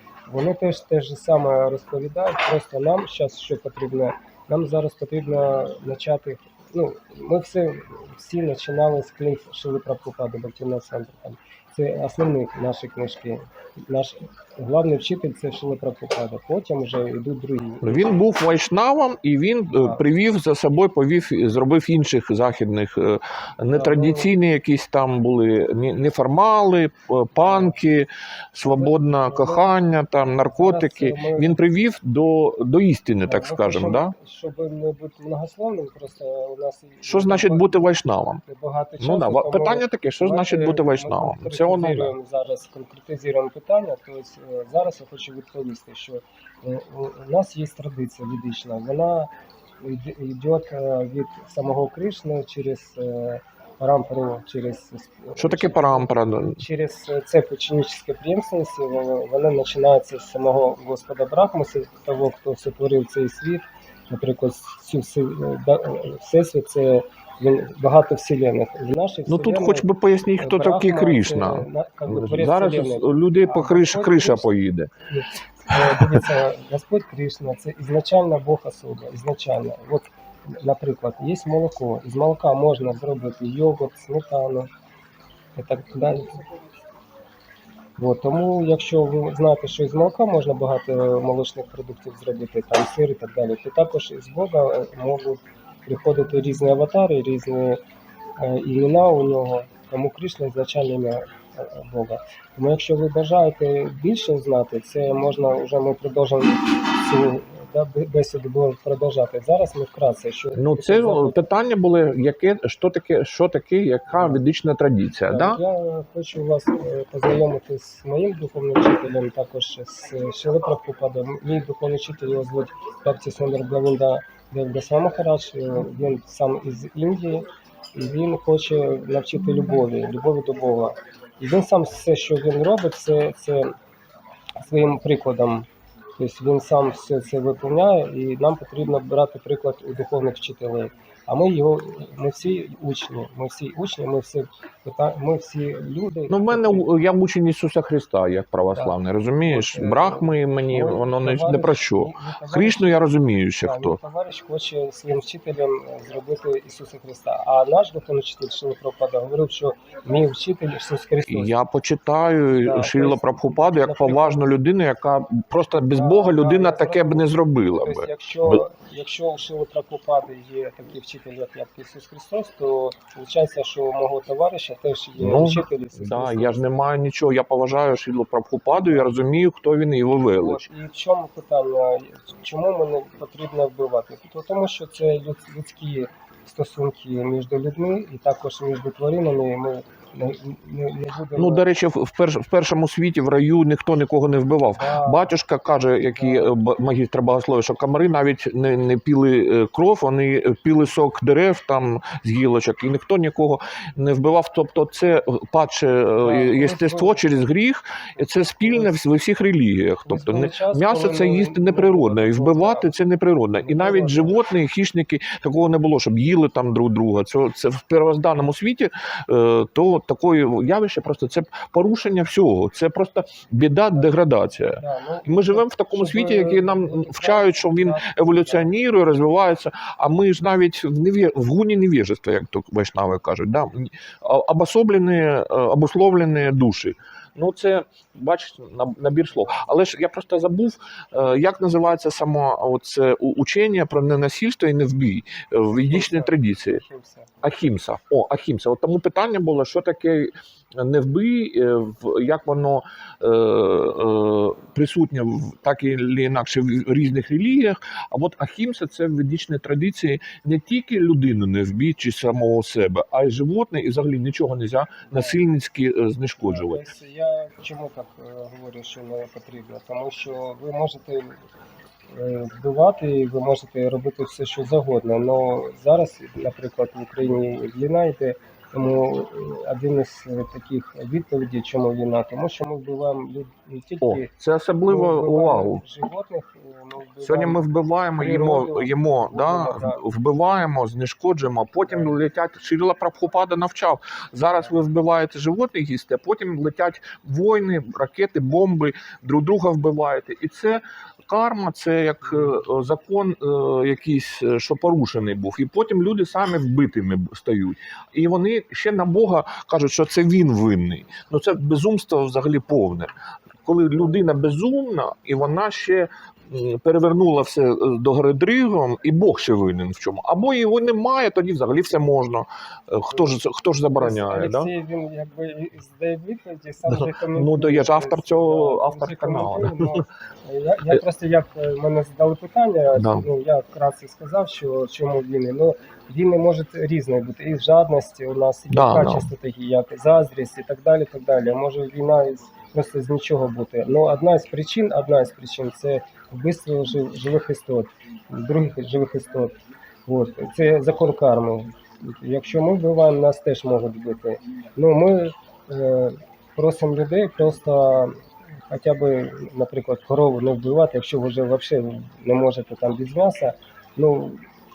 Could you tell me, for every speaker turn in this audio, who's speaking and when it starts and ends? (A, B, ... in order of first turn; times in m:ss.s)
0:00.3-0:18.1 A
0:17.8-0:34.1 B
0:23.7-0:24.3 A
0:27.4-0:27.7 A
0:28.7-0:29.7 A
0:30.5-0:31.6 A
0:33.3-0:37.7 A
0:37.0-0:38.4 B
0:38.5-0:49.3 A
0:39.0-0:42.1 B
0:49.8-0:56.1 A
0:55.4-0:56.6 B
0:56.6-1:14.5 A
1:09.3-1:14.9 B
1:15.1-1:24.7 A
1:15.7-1:16.2 B
1:25.6-1:26.4 A
1:28.0-1:37.8 A
1:38.4-1:51.4 A
1:50.5-1:55.6 B
1:54.1-1:54.4 A
1:55.3-2:13.7 A
2:14.6-2:15.7 A
2:16.2-2:26.9 A
2:26.3-2:34.0 B
2:29.5-2:33.0 A
2:33.6-2:41.5 A
2:41.3-2:48.6 B
2:42.6-2:44.4 A
2:46.0-2:56.7 A
2:55.2-3:00.7 B
3:00.4-3:11.7 A
3:11.4-4:06.8 B
3:14.7-3:15.3 A
3:16.2-3:16.5 A
3:26.2-3:27.3 A
3:28.6-3:28.9 A
3:30.1-3:32.9 A
3:33.6-3:34.4 A
3:44.7-3:48.7 A
4:05.7-4:07.3 A
4:07.4-4:26.8 B
4:25.1-4:25.4 A
4:26.4-4:31.4 A
4:32.1-4:44.3 A
4:44.0-4:45.8 B
4:44.9-4:47.6 A
4:47.2-5:13.1 B
4:48.2-4:50.0 A
4:51.9-4:52.1 A
5:02.2-5:02.6 A
5:13.6-5:24.7 B
5:23.1-5:23.4 A
5:24.0-5:58.2 A
5:26.9-5:30.0 B
5:33.0-5:33.3 B
5:38.7-5:39.3 B
5:58.7-6:04.4 A